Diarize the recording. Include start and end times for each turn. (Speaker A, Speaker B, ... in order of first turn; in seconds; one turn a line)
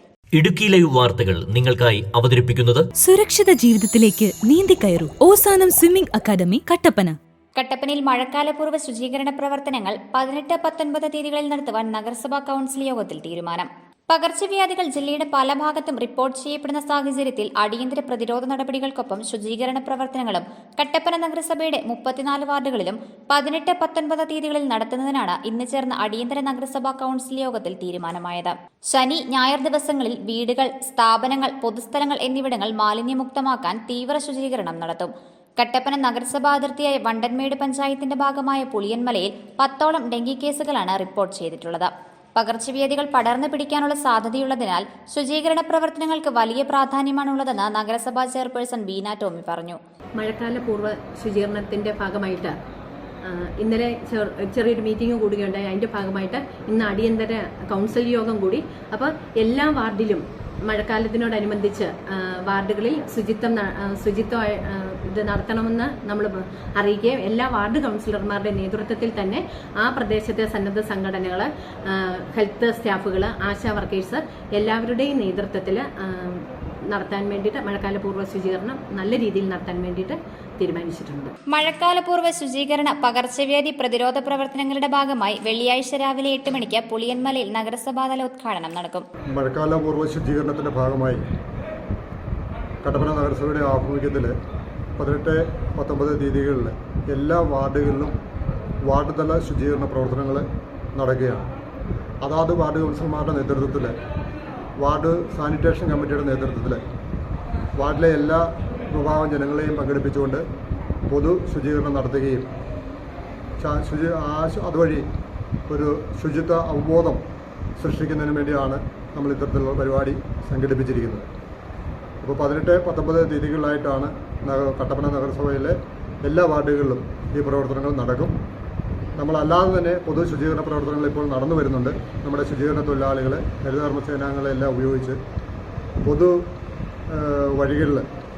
Speaker A: 0.4-2.9
Speaker B: 3.0-7.2
Speaker C: 7.6-49.8
Speaker D: 50.2-52.5
Speaker D: 53.2-81.3
Speaker C: 81.5-89.0
Speaker E: 89.3-91.2
Speaker E: 92.8-94.3
Speaker E: 95.0-98.2
Speaker E: 98.9-101.5
Speaker E: 102.2-104.0
Speaker E: 104.8-106.8
Speaker E: 107.8-110.4
Speaker E: 111.1-112.5
Speaker E: 113.6-115.0
Speaker E: 115.7-117.2
Speaker E: 117.8-121.3
Speaker E: 122.2-128.3
Speaker E: 129.2-135.2
Speaker E: 136.1-136.3
Speaker E: 137.1-138.1